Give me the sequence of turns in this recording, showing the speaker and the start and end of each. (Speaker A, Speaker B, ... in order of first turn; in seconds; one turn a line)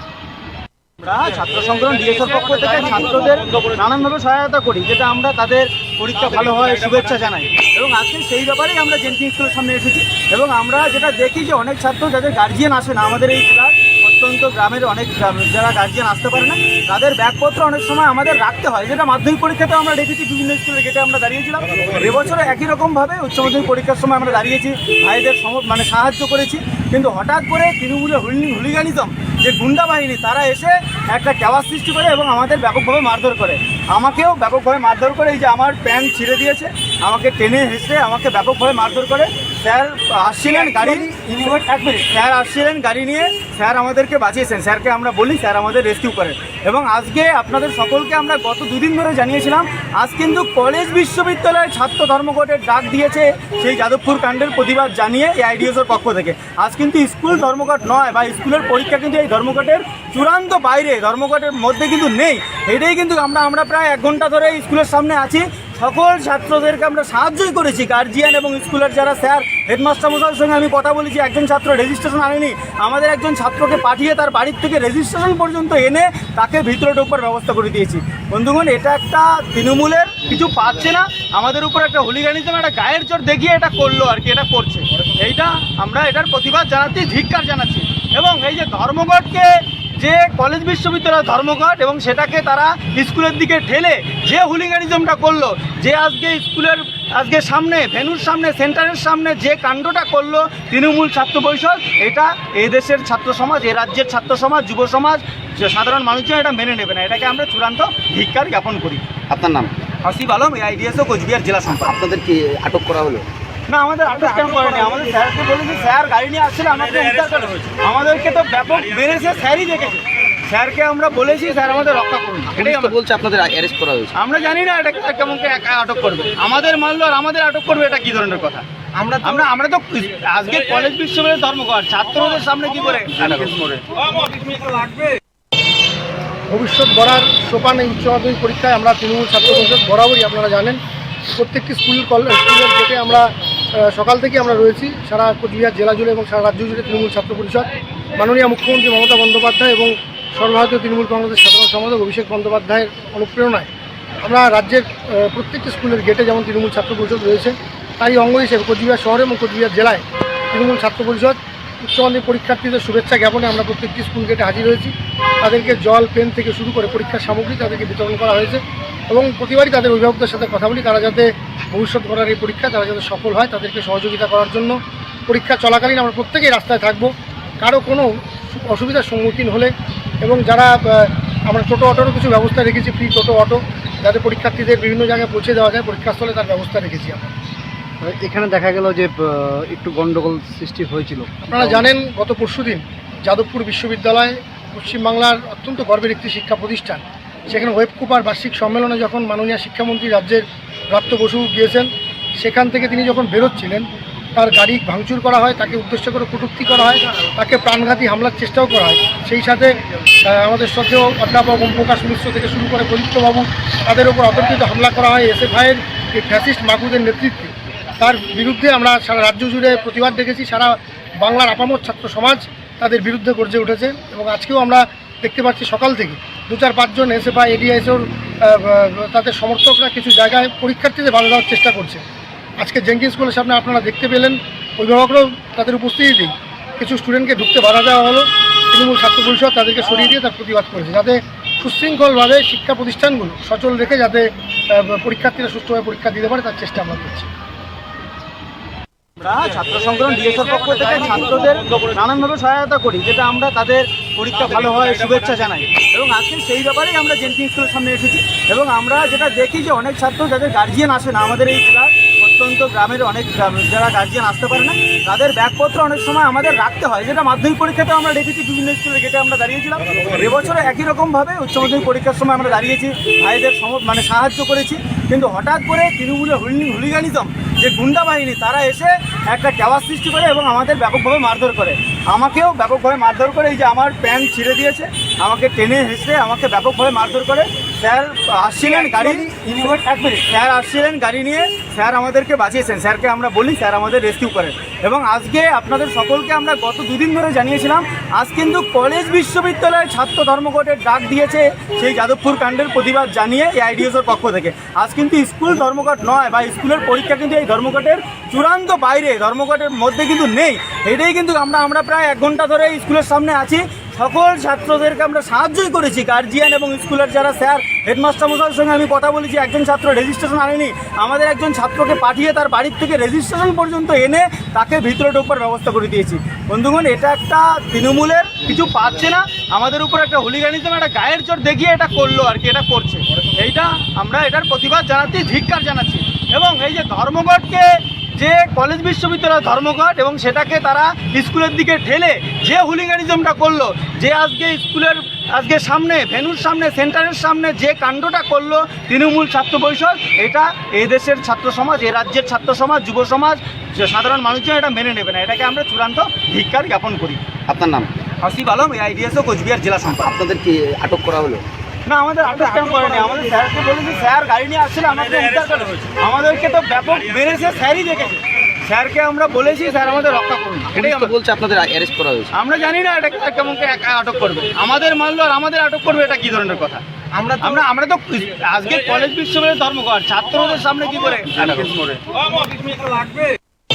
Speaker A: 1.0-41.1
Speaker B: 40.6-41.9
Speaker A: 41.9-109.0
Speaker B: 109.3-109.7
Speaker A: 110.0-112.0
Speaker B: 111.7-113.2
Speaker A: 113.7-122.9
Speaker B: 122.5-124.1
Speaker A: 124.2-128.6
Speaker B: 129.0-129.4
Speaker A: 129.2-133.5
Speaker B: 133.2-134.4
Speaker C: 136.5-140.8
Speaker C: 141.3-153.7
Speaker C: 154.2-164.9
Speaker C: 165.4-174.8
Speaker C: 175.3-179.7
Speaker C: 180.2-187.3
Speaker D: 188.0-191.9
Speaker C: 191.5-232.0
Speaker C: 232.6-247.3
Speaker A: 249.2-289.3
Speaker B: 288.8-290.1
Speaker A: 290.1-357.2
Speaker B: 357.5-357.9
Speaker A: 358.2-360.1
Speaker B: 360.0-361.4
Speaker A: 361.9-371.1
Speaker B: 370.7-372.3
Speaker A: 372.3-376.8
Speaker B: 377.1-377.5
Speaker A: 377.4-381.8
Speaker B: 381.4-383.1